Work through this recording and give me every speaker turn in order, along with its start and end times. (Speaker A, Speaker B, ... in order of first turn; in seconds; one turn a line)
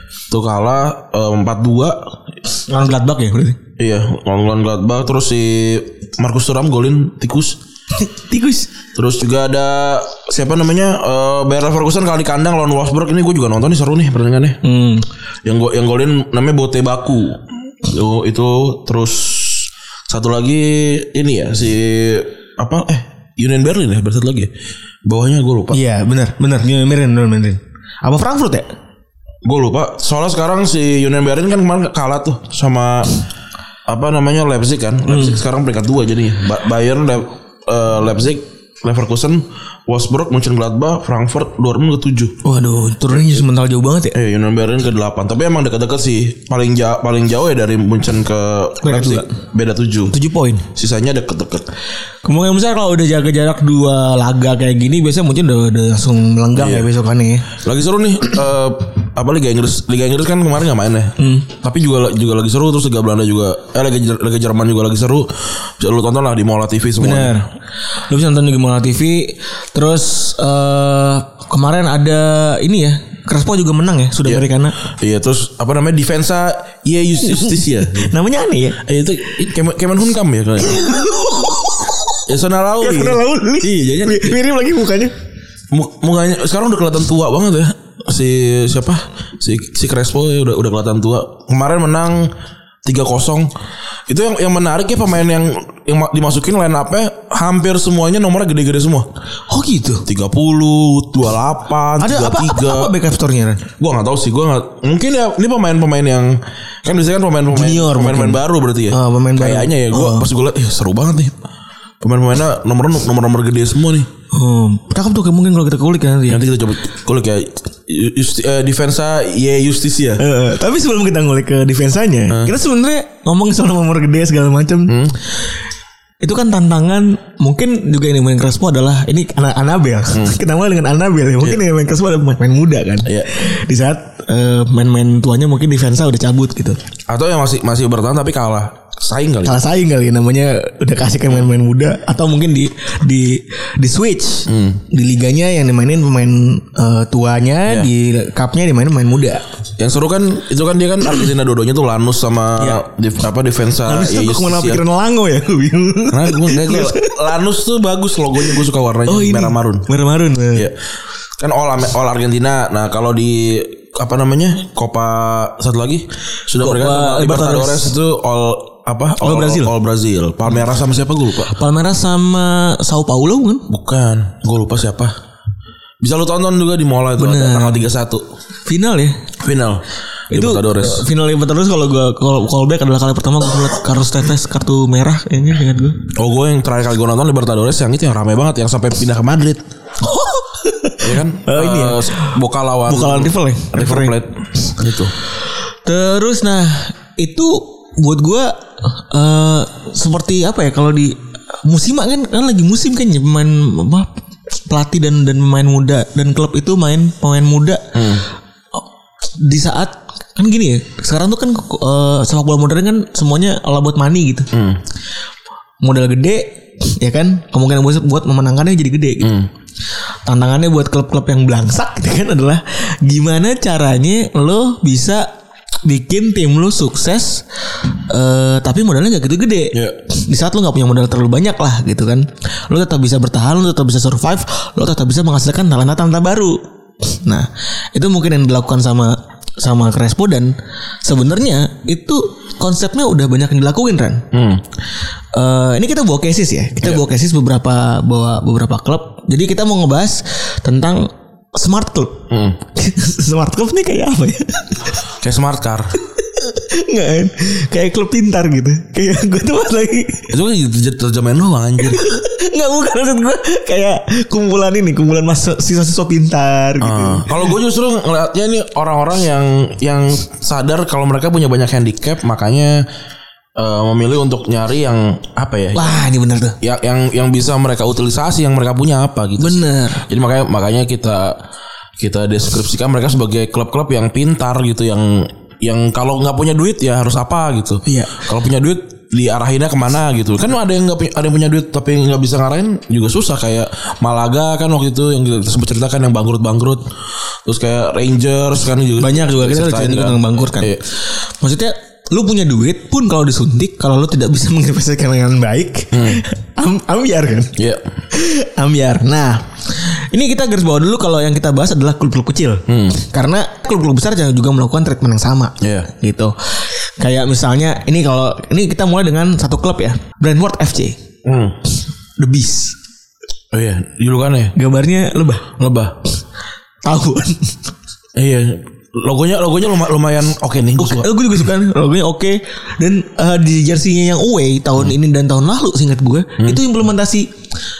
Speaker A: 0.3-2.0
Speaker B: 2.7-3.6
Speaker A: 3.8-7.6
Speaker B: 8.0-8.7
Speaker A: 8.9-14.6
Speaker B: 14.6-15.1
Speaker A: 15.4-24.5
Speaker A: 25.1-25.8
Speaker B: 25.7-28.7
Speaker A: 29.4-33.2
Speaker A: 33.9-42.4
Speaker B: 35.1-35.4
Speaker B: 42.4-44.2
Speaker A: 43.1-43.5
Speaker A: 44.1-50.1
Speaker B: 48.8-49.3
Speaker B: 50.1-50.7
Speaker A: 50.7-51.7
Speaker B: 52.2-57.5
Speaker A: 56.6-56.9
Speaker A: 57.5-67.3
Speaker B: 61.2-61.5
Speaker B: 67.0-67.5
Speaker B: 68.1-74.8
Speaker A: 74.2-78.1
Speaker B: 77.3-78.8
Speaker A: 78.8-81.0
Speaker B: 80.6-82.2
Speaker A: 82.3-84.4
Speaker B: 82.8-85.1
Speaker A: 85.7-92.3
Speaker A: 92.8-93.5
Speaker A: 94.1-99.1
Speaker B: 99.5-100.1
Speaker A: 100.1-102.9
Speaker B: 102.0-103.6
Speaker A: 103.8-111.4
Speaker B: 107.5-110.3
Speaker A: 112.0-114.1
Speaker B: 114.3-116.5
Speaker A: 116.3-120.2
Speaker B: 120.2-125.1
Speaker A: 122.3-122.5
Speaker A: 124.9-125.2
Speaker B: 126.2-136.8
Speaker A: 137.1-139.6
Speaker B: 139.4-149.5
Speaker A: 144.5-144.8
Speaker A: 149.8-154.8
Speaker B: 153.8-157.1
Speaker A: 156.1-159.9
Speaker B: 159.1-160.7
Speaker A: 161.4-171.5
Speaker B: 166.6-167.9
Speaker B: 169.2-169.8
Speaker B: 171.4-173.7
Speaker A: 173.7-175.1
Speaker A: 176.0-178.2
Speaker B: 177.2-177.8
Speaker B: 178.7-179.3
Speaker A: 179.4-181.1
Speaker B: 180.3-186.1
Speaker A: 186.1-189.6
Speaker B: 190.0-194.7
Speaker A: 191.0-195.1
Speaker B: 195.8-204.1
Speaker B: 204.7-208.2
Speaker A: 207.9-208.3
Speaker B: 209.4-214.5
Speaker A: 214.5-214.8
Speaker B: 215.8-219.4
Speaker A: 219.2-219.5
Speaker B: 220.2-225.3
Speaker B: 225.8-244.3
Speaker A: 229.7-230.0
Speaker A: 244.3-244.7
Speaker B: 245.3-252.2
Speaker A: 252.3-252.6
Speaker B: 252.8-255.0
Speaker A: 255.2-256.0
Speaker B: 256.2-260.3
Speaker A: 260.3-262.0
Speaker B: 261.8-267.4
Speaker A: 266.8-272.9
Speaker A: 273.6-276.0
Speaker B: 275.7-276.6
Speaker A: 276.6-281.4
Speaker B: 279.4-280.1
Speaker A: 282.0-296.8
Speaker B: 287.9-288.2
Speaker A: 297.4-300.8
Speaker B: 299.0-307.6
Speaker A: 305.9-306.2
Speaker A: 307.6-307.8
Speaker B: 308.1-321.0
Speaker A: 312.7-313.0
Speaker A: 315.6-315.9
Speaker A: 321.2-321.6
Speaker B: 322.2-322.8
Speaker A: 323.5-324.6
Speaker B: 324.6-325.5
Speaker A: 325.6-326.0
Speaker B: 326.9-327.6
Speaker A: 328.1-331.1
Speaker B: 330.8-337.3